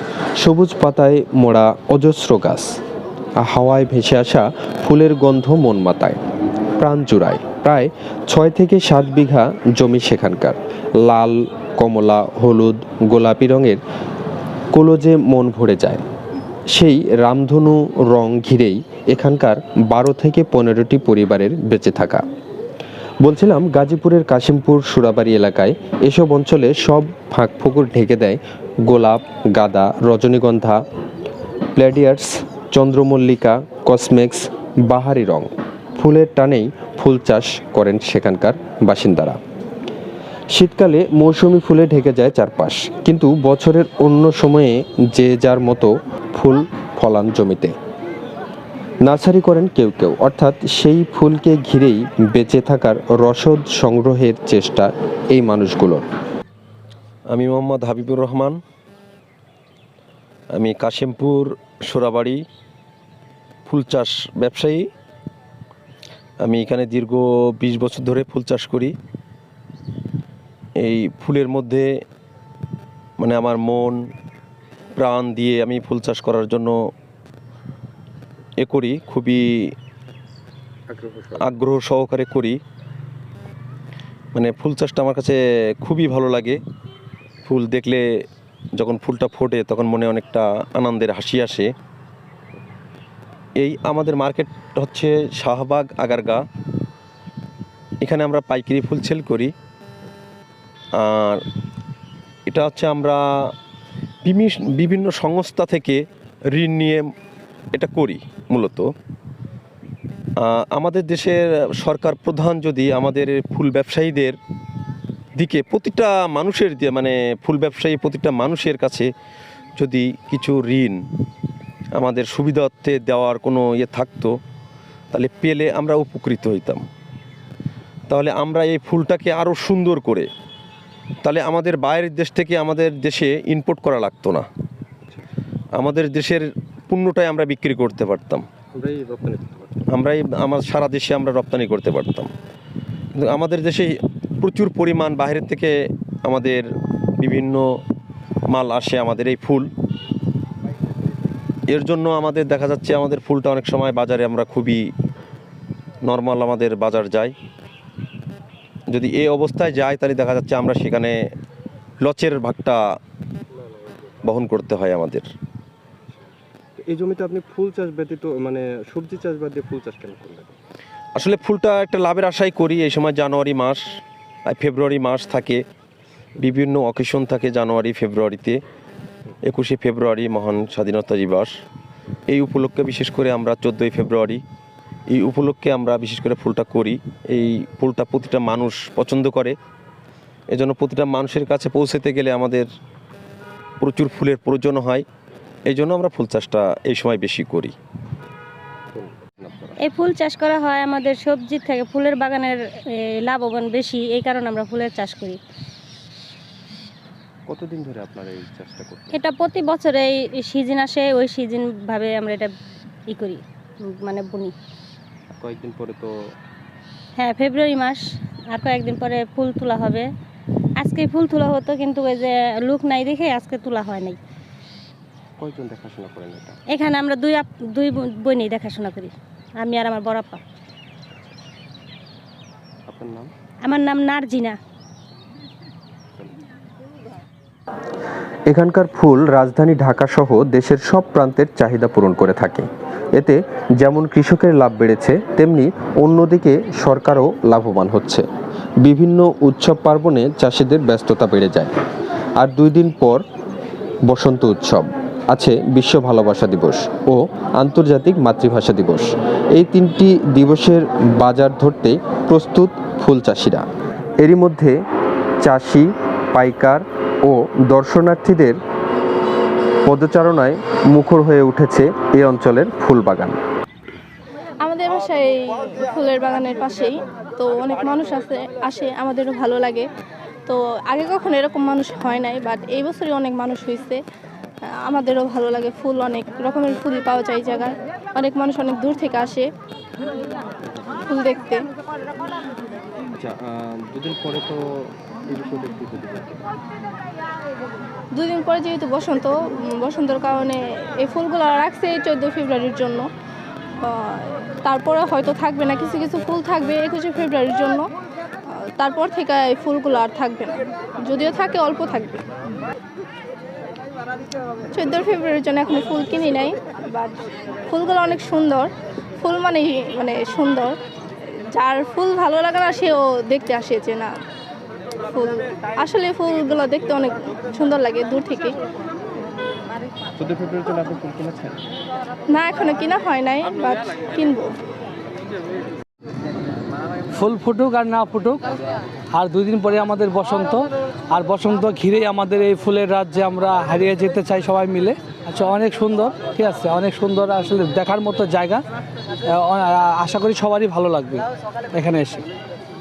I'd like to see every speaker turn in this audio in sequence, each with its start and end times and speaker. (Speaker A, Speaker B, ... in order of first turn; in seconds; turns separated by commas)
Speaker A: 0.4-2.7, Speaker A: 3.4-6.2, Speaker A: 6.8-13.8, Speaker A: 14.7-16.0, Speaker A: 16.7-22.2, Speaker A: 23.2-30.8, Speaker A: 31.8-39.4, Speaker A: 40.5-47.7, Speaker A: 49.0-56.0, Speaker B: 57.3-58.6, Speaker B: 60.6-62.4, Speaker B: 63.7-64.9, Speaker B: 66.4-68.9, Speaker B: 70.8-71.9, Speaker B: 73.2-74.0, Speaker B: 75.0-76.7, Speaker B: 78.6-79.7, Speaker C: 80.9-81.4, Speaker B: 81.4-82.6, Speaker B: 84.3-86.6, Speaker B: 87.5-88.0, Speaker B: 88.8-91.7, Speaker B: 93.6-96.4, Speaker B: 98.0-99.5, Speaker B: 101.0-101.4, Speaker B: 102.5-103.5, Speaker B: 104.2-107.1, Speaker B: 107.7-108.9, Speaker B: 110.4-114.4, Speaker B: 115.4-119.1, Speaker B: 119.8-121.0, Speaker B: 122.0-124.3, Speaker B: 125.1-126.9, Speaker B: 128.1-130.3, Speaker B: 131.2-134.5, Speaker B: 135.8-138.4, Speaker C: 138.7-139.8, Speaker B: 139.9-142.3, Speaker B: 143.2-145.7, Speaker B: 146.2-146.6, Speaker B: 147.2-147.7, Speaker B: 148.5-149.7, Speaker B: 151.7-154.9, Speaker B: 156.0-157.3, Speaker B: 158.9-161.2, Speaker B: 162.0-162.8, Speaker B: 164.3-165.3, Speaker C: 166.9-170.6, Speaker B: 171.2-175.6, Speaker B: 176.4-178.6, Speaker B: 179.5-181.5, Speaker B: 182.3-184.4, Speaker B: 185.1-189.6, Speaker B: 190.5-192.7, Speaker B: 193.8-195.1, Speaker B: 195.7-197.8, Speaker C: 198.9-199.8, Speaker D: 199.8-202.6, Speaker D: 203.2-205.4, Speaker C: 207.5-209.1, Speaker D: 209.1-212.5, Speaker D: 213.1-214.5, Speaker C: 215.4-216.1, Speaker D: 217.2-218.0, Speaker D: 218.5-220.1, Speaker D: 220.8-224.2, Speaker C: 225.4-226.6, Speaker D: 226.7-230.4, Speaker C: 232.9-233.3, Speaker D: 233.6-234.6, Speaker A: 238.5-248.2, Speaker A: 248.8-251.7, Speaker A: 252.4-253.2, Speaker A: 254.1-263.6, Speaker A: 264.2-264.8, Speaker A: 265.4-268.6, Speaker A: 269.9-273.4, Speaker E: 274.6-279.9, Speaker E: 280.5-284.0, Speaker E: 284.7-289.5, Speaker E: 291.1-291.6, Speaker C: 293.2-296.4, Speaker E: 298.1-303.1, Speaker E: 303.8-307.9, Speaker E: 308.5-312.2, Speaker E: 314.7-320.8, Speaker E: 321.3-324.1, Speaker E: 325.1-328.6, Speaker C: 330.2-331.6, Speaker E: 332.3-334.5, Speaker F: 337.1-338.4, Speaker F: 339.1-348.6, Speaker F: 349.2-352.2